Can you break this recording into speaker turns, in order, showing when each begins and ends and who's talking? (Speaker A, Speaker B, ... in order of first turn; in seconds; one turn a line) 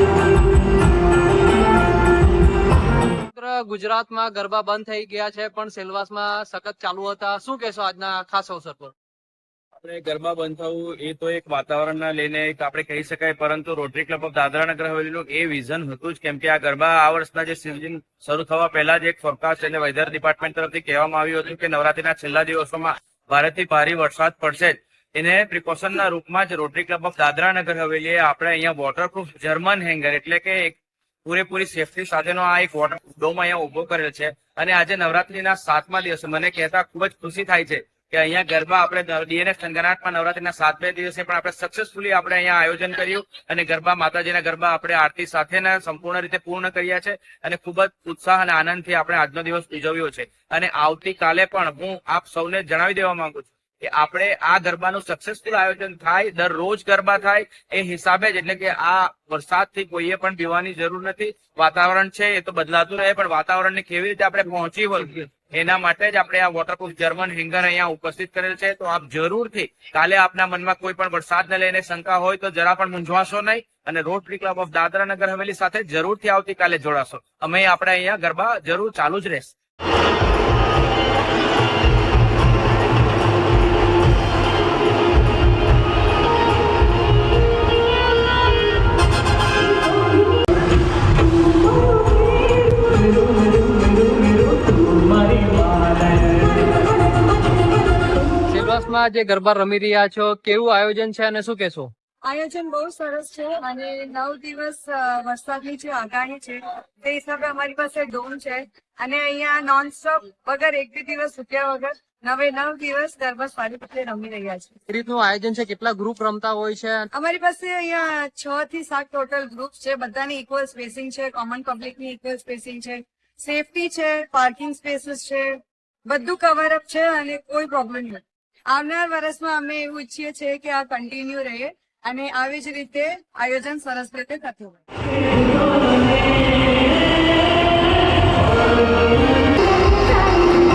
Speaker A: 3.3-8.9
Speaker B: 9.8-79.5
Speaker A: 98.5-101.9
Speaker C: 102.2-114.8
Speaker A: 114.9-117.1
Speaker C: 117.1-134.8